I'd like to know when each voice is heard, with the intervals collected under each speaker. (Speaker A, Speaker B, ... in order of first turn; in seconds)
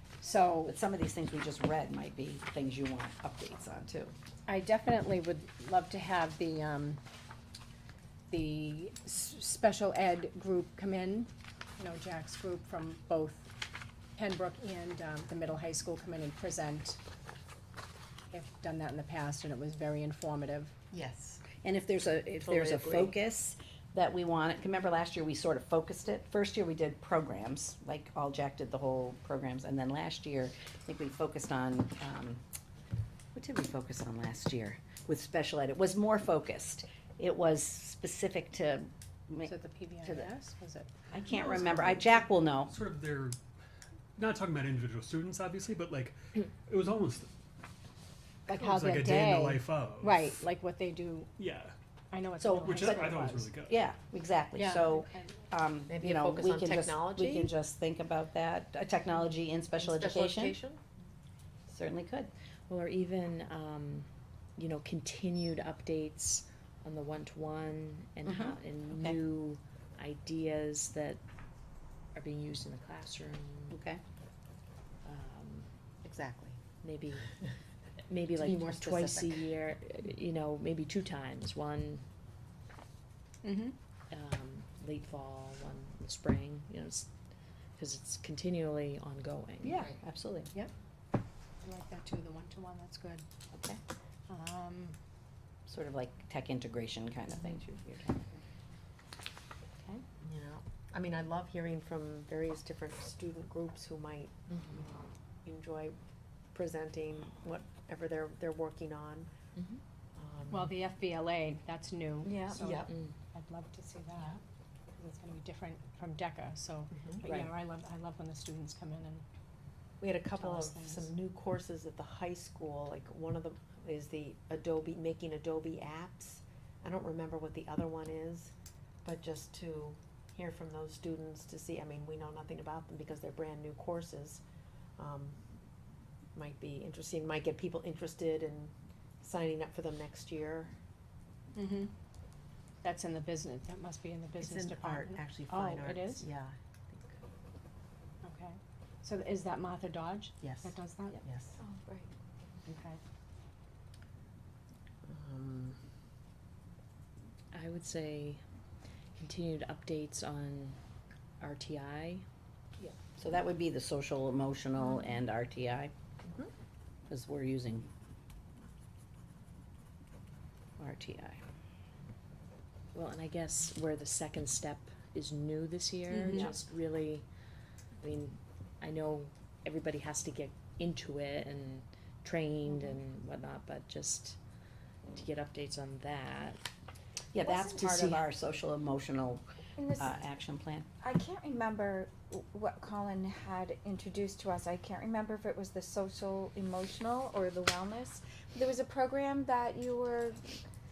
Speaker A: 0.2-0.8, 4.5-7.0, 8.3-13.5, 14.2-17.0, 18.3-20.7, 39.4-40.9, 41.7-42.2, 48.5-51.3, 52.1-53.5, 54.5-55.3, 83.4-83.8, 91.6-93.2, 94.3-95.0, 110.5-114.4, 115.0-119.2, 120.3-121.1, 141.6-141.9, 142.8-146.2, 148.2-151.2, 152.7-153.0, 176.1-176.5
Speaker B: 0.6-4.1, 21.6-32.4, 33.3-40.3, 41.1-42.8, 52.4-53.1, 53.6-60.6, 61.7-62.3, 68.2-69.2, 73.7-74.0, 89.6-90.5, 93.5-93.8, 95.7-98.4, 163.2-165.9, 167.1-167.9, 170.8-171.4, 176.3-176.6, 187.3-189.4, 190.0-190.9
Speaker C: 20.9-21.4, 55.9-57.5, 59.8-60.8, 76.0-76.6, 78.4-79.5, 100.2-106.0, 106.5-109.3, 110.2-110.7, 112.5-112.9, 116.9-117.3, 120.0-128.5, 129.0-134.4, 135.0-135.4, 136.3-140.7, 144.4-147.2, 150.4-151.6, 155.1-155.8
Speaker D: 22.5-22.9, 62.7-71.2, 72.1-73.8, 75.0-75.7, 76.8-77.3, 78.1-82.0, 84.1-87.1, 87.8-89.8, 104.5-104.8, 109.6-109.8, 112.8-113.2, 117.2-117.5, 157.5-158.4, 159.2-160.8, 161.4-162.2, 172.9-177.3, 178.0-184.4, 185.1-186.6
Speaker E: 42.4-43.4, 44.2-47.3, 48.5-50.5, 51.4-51.8, 52.6-53.8
Speaker F: 112.2-112.6, 151.6-152.1, 187.4-188.0, 189.8-190.3, 191.0-200.6